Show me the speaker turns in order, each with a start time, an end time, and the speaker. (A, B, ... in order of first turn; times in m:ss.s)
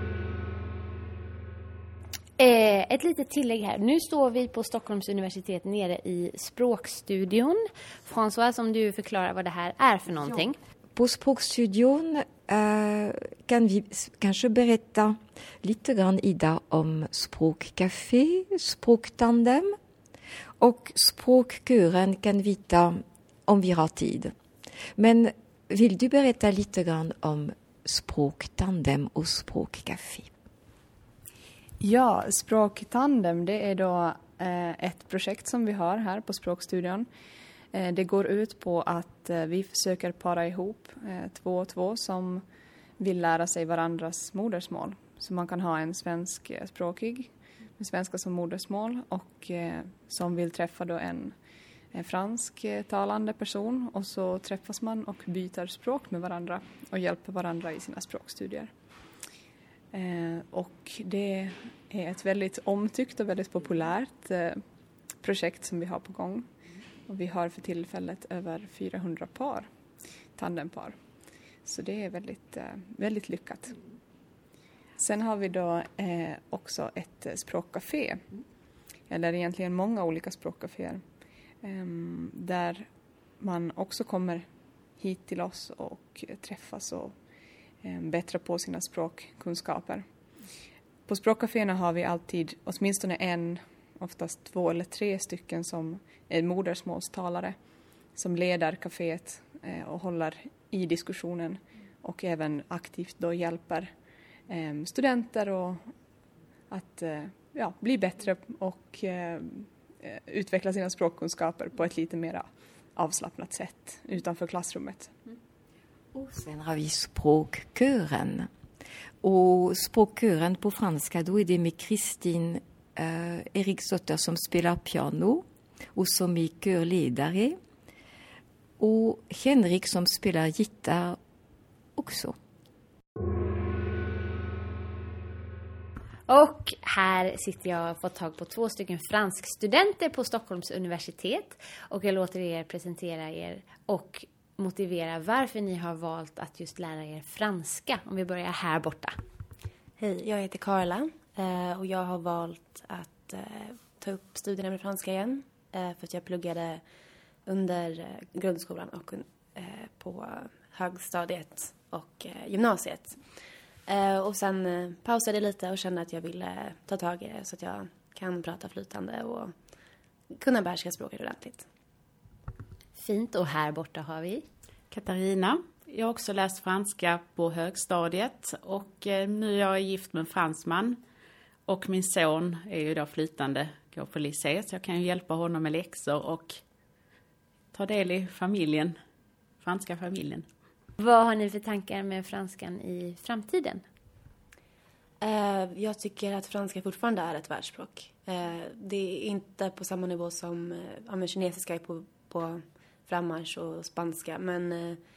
0:02.4-0:10.6 A
0:11.0-0:19.7 B
0:20.6-0:24.3 B
0:25.0-0:30.3 B
0:31.8-0:37.1 C
0:37.7-0:42.4 C
0:43.0-0:51.3 C
0:51.9-0:58.7 C
0:59.9-1:04.6 C
1:05.2-1:06.4 C
1:07.1-1:09.7 C
1:10.4-1:10.9 C
1:11.6-1:13.8 C
1:15.0-1:18.2 C
1:19.1-1:21.0 C
1:21.6-1:22.8 C
1:23.4-1:24.4 C
1:25.0-1:27.1 C
1:27.8-1:30.0 C
1:31.1-1:37.5 C
1:38.1-1:43.9 C
1:44.5-1:45.8 C
1:46.7-1:55.1 C
1:56.1-1:58.5 B
1:59.2-2:07.6 B
2:08.8-2:11.2 B
2:12.0-2:12.3 B
2:16.3-2:29.1 A
2:30.0-2:36.8 D
2:37.4-2:43.3 D
2:43.9-2:49.5 D
2:50.4-2:51.6 D
2:52.9-2:54.4 A
2:54.9-3:01.0 E
3:01.7-3:06.6 E
3:07.7-3:09.0 E
3:09.6-3:10.4 E
3:11.0-3:13.8 A
3:15.2-3:25.0 D